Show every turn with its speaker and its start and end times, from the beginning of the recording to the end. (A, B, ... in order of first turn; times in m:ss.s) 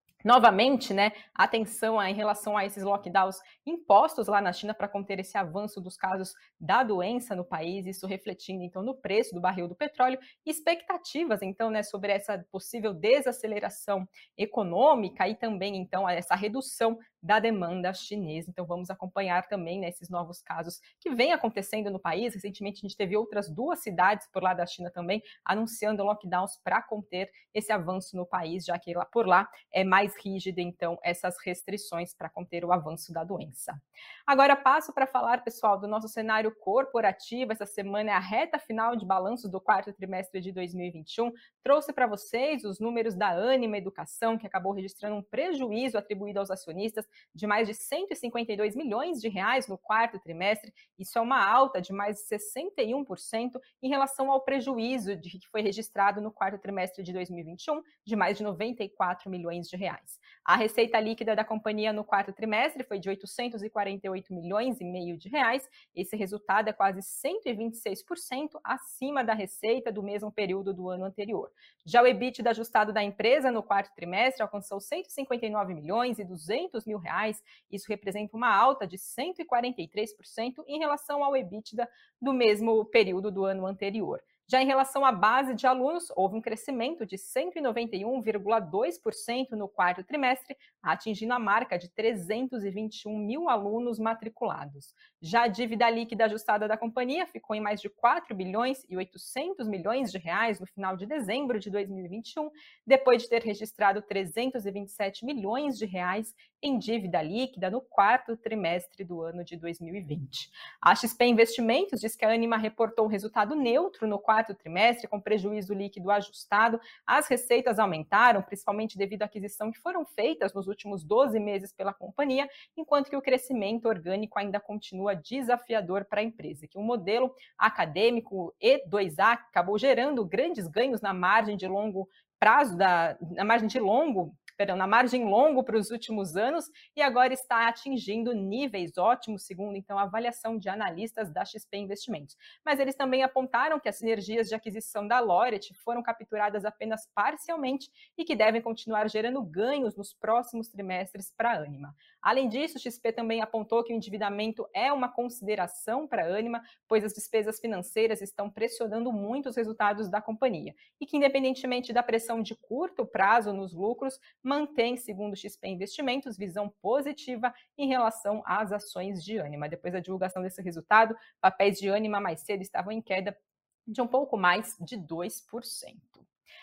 0:00.2-2:53.4 A
2:53.9-2:56.3 A